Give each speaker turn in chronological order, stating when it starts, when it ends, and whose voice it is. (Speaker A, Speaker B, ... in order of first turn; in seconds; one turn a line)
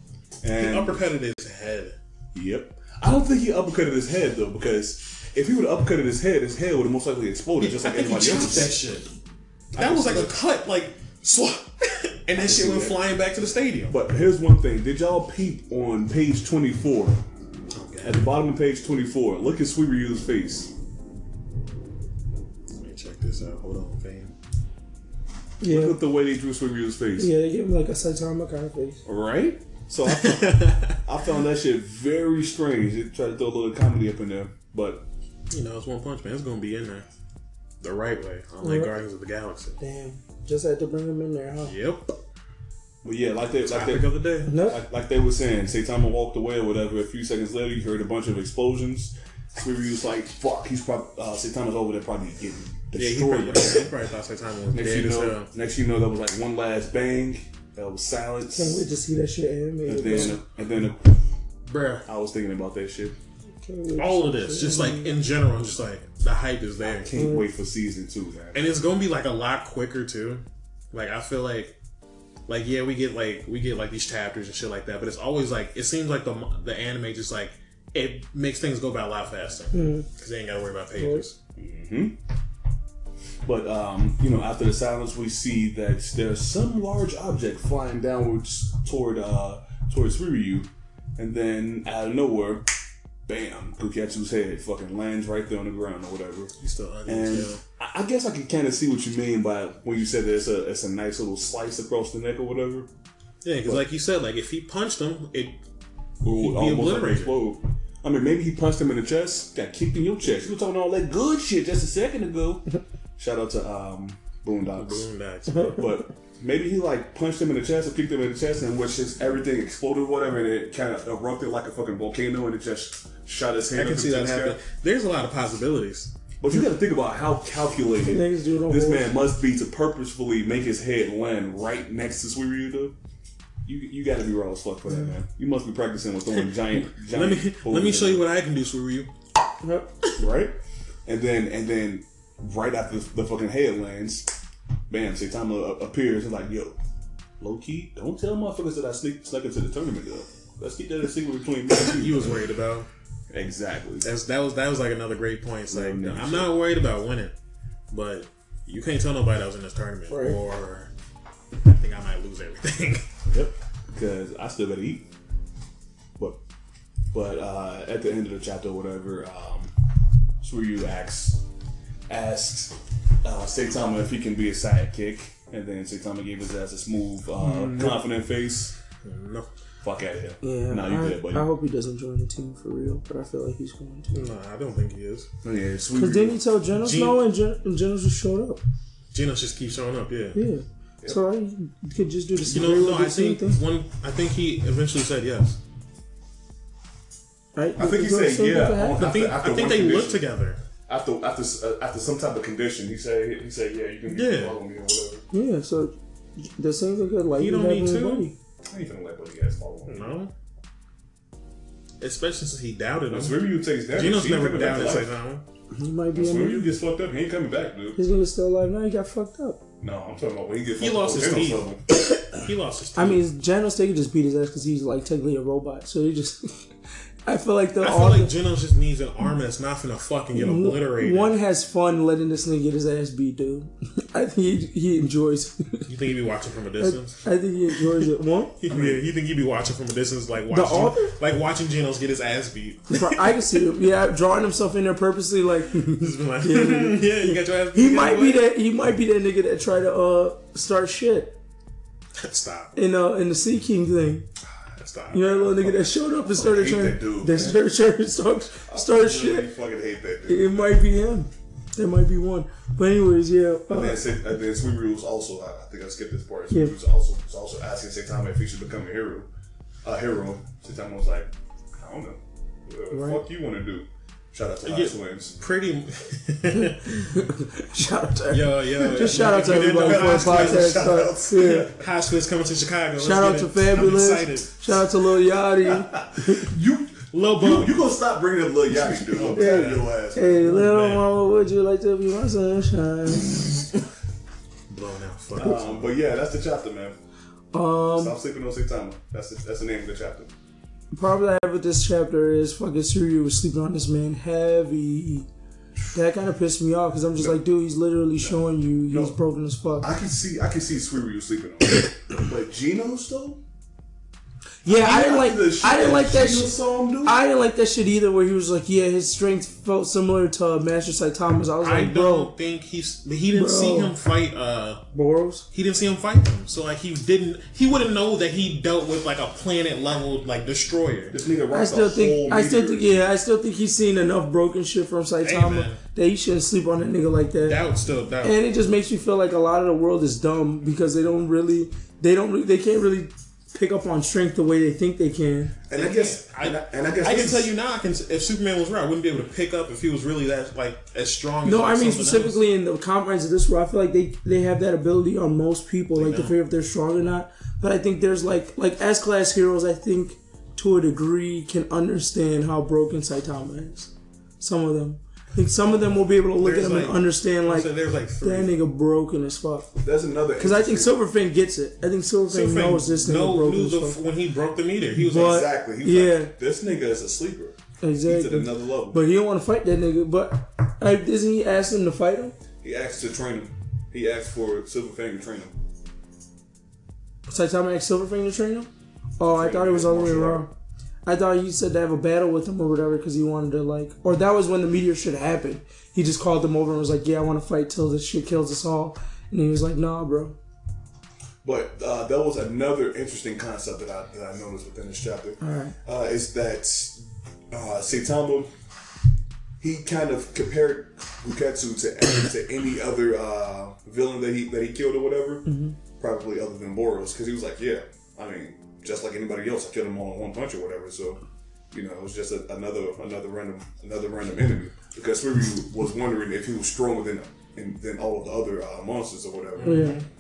Speaker A: 0.4-1.0
Speaker B: 0.6-2.0
Speaker A: 2.3-8.7
Speaker B: 7.6-9.1
Speaker A: 9.7-10.3
Speaker B: 9.8-13.9
Speaker A: 12.4-13.0
Speaker A: 13.9-17.2
Speaker B: 17.7-18.3
Speaker A: 18.0-20.7
Speaker B: 22.8-24.3
Speaker C: 25.6-26.0
Speaker A: 25.7-27.3
Speaker C: 27.2-29.0
Speaker A: 29.1-35.0
Speaker B: 30.1-31.0
Speaker B: 35.5-37.1
Speaker B: 37.8-39.8
Speaker C: 38.6-38.9
Speaker C: 39.8-41.7
Speaker B: 41.7-42.1
Speaker A: 43.0-53.9
Speaker B: 43.7-44.5
Speaker C: 44.5-44.8
Speaker B: 53.0-55.5
Speaker A: 54.7-58.9
Speaker C: 58.5-60.4
Speaker A: 59.9-61.2
Speaker B: 61.7-62.0
Speaker A: 62.1-63.2
Speaker C: 63.6-65.1
Speaker B: 64.0-67.1
Speaker A: 66.8-68.6
Speaker C: 67.1-67.5
Speaker B: 68.5-71.8
Speaker B: 72.5-81.3
Speaker C: 79.7-80.1
Speaker C: 81.0-81.2
Speaker A: 81.6-82.2
Speaker A: 83.5-92.7
Speaker A: 93.3-96.5
Speaker B: 96.6-97.6
Speaker A: 97.1-102.9
Speaker B: 103.4-105.6
Speaker A: 106.2-112.7
Speaker B: 106.4-107.4
Speaker A: 113.2-115.1
Speaker B: 114.7-115.8
Speaker C: 115.5-116.0
Speaker A: 115.8-124.6
Speaker B: 123.7-126.1
Speaker A: 126.4-132.9
Speaker C: 128.1-129.1
Speaker A: 133.7-138.2
Speaker B: 136.4-139.1
Speaker C: 139.6-139.9
Speaker A: 140.2-144.3
Speaker A: 144.9-146.8
Speaker A: 147.4-152.5
Speaker B: 151.8-152.9
Speaker A: 153.3-154.1
Speaker B: 154.0-157.3
Speaker A: 155.7-156.5
Speaker B: 157.9-160.9
Speaker C: 160.1-160.4
Speaker B: 161.6-163.1
Speaker A: 163.3-165.1
Speaker A: 167.1-169.7
Speaker A: 170.4-171.4
Speaker A: 172.1-178.8
Speaker B: 177.4-177.9
Speaker B: 179.0-179.5
Speaker A: 179.8-181.5
Speaker C: 180.4-184.3
Speaker B: 184.1-185.3
Speaker A: 185.4-186.4
Speaker C: 185.9-188.6
Speaker B: 186.8-187.2
Speaker B: 189.1-190.4
Speaker C: 190.3-193.6
Speaker B: 192.5-195.6
Speaker C: 197.6-199.1
Speaker A: 197.8-200.2
Speaker B: 199.0-200.6
Speaker A: 200.9-205.2
Speaker B: 204.1-204.6
Speaker C: 205.3-208.3
Speaker B: 207.4-208.3
Speaker A: 208.7-210.1
Speaker B: 209.9-210.3
Speaker B: 212.0-215.4
Speaker A: 213.1-215.1
Speaker C: 215.7-216.7
Speaker A: 216.1-218.0
Speaker C: 218.0-219.6
Speaker A: 219.8-221.8
Speaker B: 220.8-221.7
Speaker B: 222.3-223.2
Speaker C: 222.9-226.7
Speaker C: 227.2-228.3
Speaker B: 227.8-231.3
Speaker C: 230.3-235.9
Speaker B: 235.9-237.2
Speaker C: 236.8-238.6
Speaker B: 238.6-243.4
Speaker A: 238.7-239.0
Speaker C: 240.5-241.2
Speaker C: 242.9-251.4
Speaker B: 245.8-248.4
Speaker B: 252.2-252.7
Speaker C: 252.8-254.3
Speaker B: 254.6-256.0
Speaker C: 255.1-259.5
Speaker A: 256.3-257.6
Speaker A: 258.7-260.9
Speaker C: 260.3-264.0
Speaker A: 263.7-269.3
Speaker C: 266.5-266.8
Speaker A: 269.8-275.4
Speaker C: 272.9-273.2
Speaker B: 274.6-277.2
Speaker C: 277.1-281.7
Speaker B: 278.3-281.1
Speaker A: 279.1-281.8
Speaker B: 281.7-284.5
Speaker C: 283.0-286.5
Speaker A: 285.6-290.4
Speaker B: 287.1-287.8
Speaker B: 289.0-291.0
Speaker C: 289.4-293.6
Speaker B: 294.7-295.9
Speaker A: 295.4-297.0
Speaker C: 297.5-298.2
Speaker A: 297.9-300.3
Speaker C: 300.9-305.3
Speaker C: 305.9-309.9
Speaker A: 308.2-309.2
Speaker A: 309.8-313.4
Speaker C: 314.6-322.3
Speaker A: 314.7-317.2
Speaker B: 321.6-324.8
Speaker C: 323.3-323.9
Speaker C: 324.9-325.5
Speaker B: 325.5-331.1
Speaker A: 331.1-333.0
Speaker C: 331.5-337.6
Speaker B: 335.2-335.8
Speaker B: 337.5-338.4
Speaker C: 338.2-345.6
Speaker A: 345.7-347.5
Speaker B: 345.7-352.4
Speaker C: 351.4-369.8
Speaker B: 355.9-356.4
Speaker B: 366.4-368.5
Speaker A: 369.8-370.9
Speaker C: 370.4-374.0
Speaker B: 372.3-375.4
Speaker C: 375.0-376.3
Speaker A: 375.1-379.0
Speaker C: 377.8-382.4
Speaker A: 382.6-385.6
Speaker C: 387.3-390.5
Speaker A: 389.3-390.5
Speaker C: 391.1-400.4
Speaker A: 401.4-408.5
Speaker C: 405.4-405.8
Speaker A: 409.6-415.5
Speaker C: 415.5-415.8
Speaker A: 416.0-421.2
Speaker A: 421.7-430.0
Speaker B: 429.6-430.0
Speaker C: 429.6-430.0